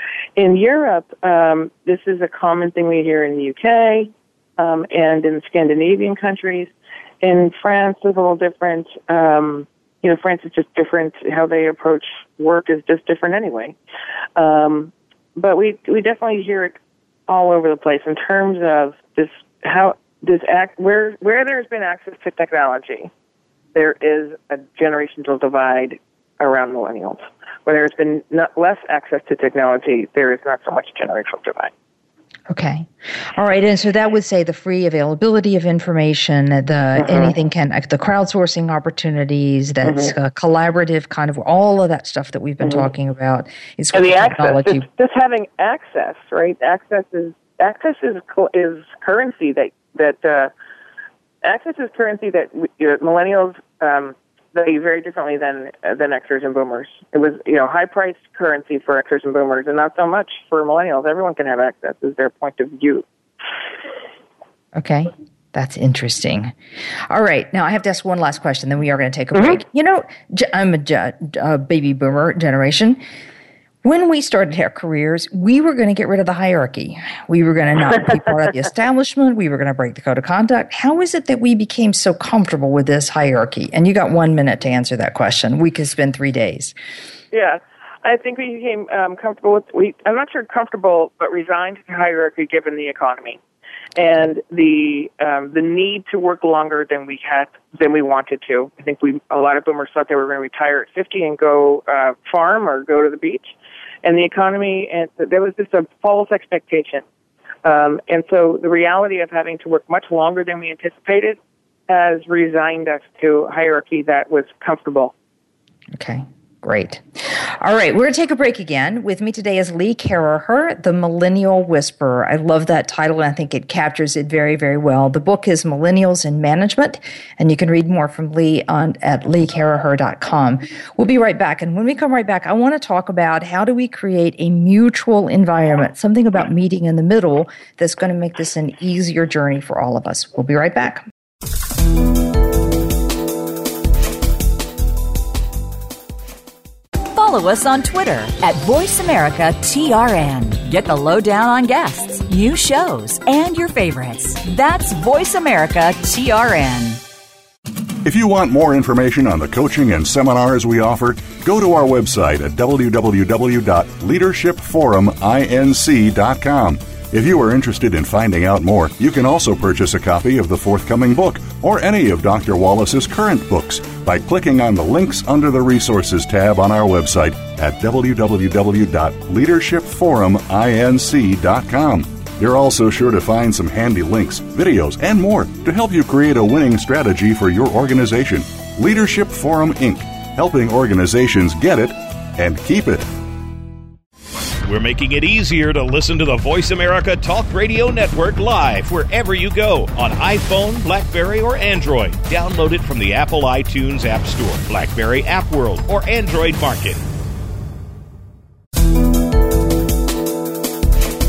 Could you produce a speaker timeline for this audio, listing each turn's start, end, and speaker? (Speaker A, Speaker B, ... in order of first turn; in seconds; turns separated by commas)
Speaker A: 0.4-13.8, Speaker A: 14.4-16.8, Speaker A: 17.3-23.1, Speaker A: 23.8-31.7, Speaker B: 32.5-44.9, Speaker A: 37.0-37.3, Speaker A: 39.9-40.1, Speaker A: 43.9-50.5, Speaker A: 51.4-63.0, Speaker B: 64.7-66.5, Speaker B: 67.1-73.0, Speaker A: 69.3-69.6, Speaker B: 73.8-86.8, Speaker A: 87.3-93.4, Speaker A: 94.0-107.0, Speaker A: 107.6-115.1, Speaker B: 115.9-141.0, Speaker C: 147.1-157.0, Speaker D: 158.1-193.1, Speaker E: 194.7-207.0